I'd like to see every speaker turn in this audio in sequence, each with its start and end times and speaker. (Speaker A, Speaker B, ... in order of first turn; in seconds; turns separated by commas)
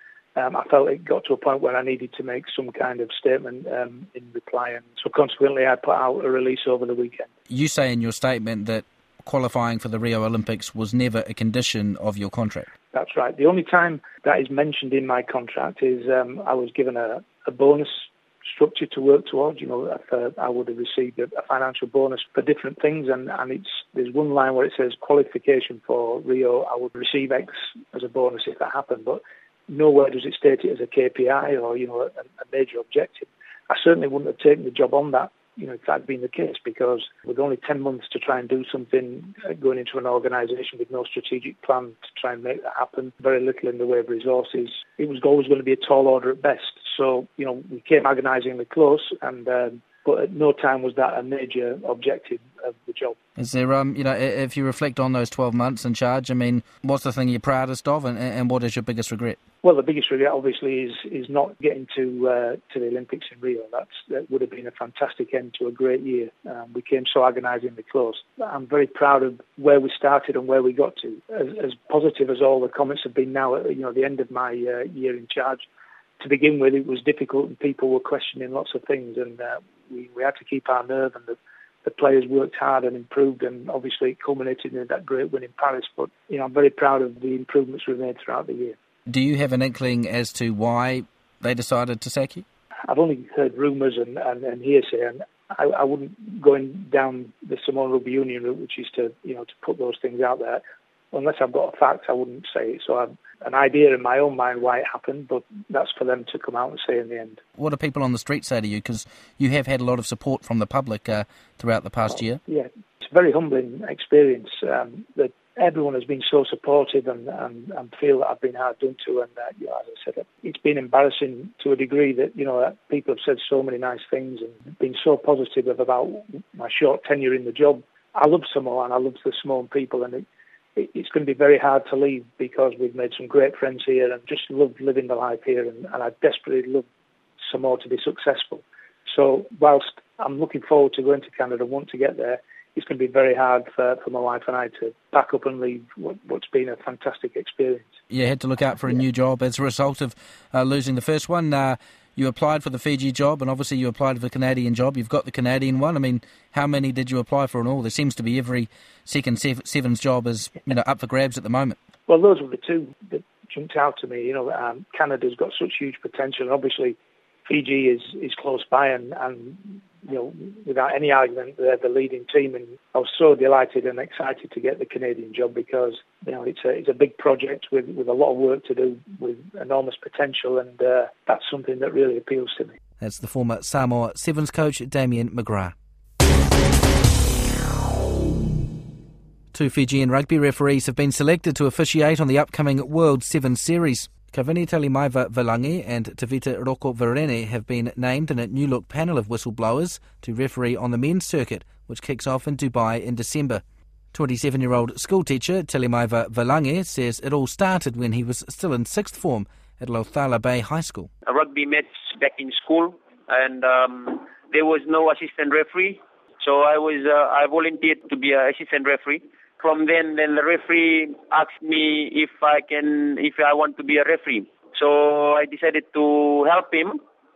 Speaker A: 0.3-7.3, Speaker B: 7.5-12.7, Speaker A: 12.9-53.1, Speaker B: 53.4-59.4, Speaker A: 59.6-75.7, Speaker A: 76.2-88.8, Speaker B: 89.1-92.4, Speaker A: 92.9-107.4, Speaker B: 107.6-112.4, Speaker A: 112.5-130.2, Speaker A: 130.8-136.8, Speaker A: 137.5-147.9, Speaker B: 148.1-161.8, Speaker A: 162.1-182.7, Speaker B: 183.0-185.7, Speaker B: 189.5-211.1, Speaker C: 211.3-227.0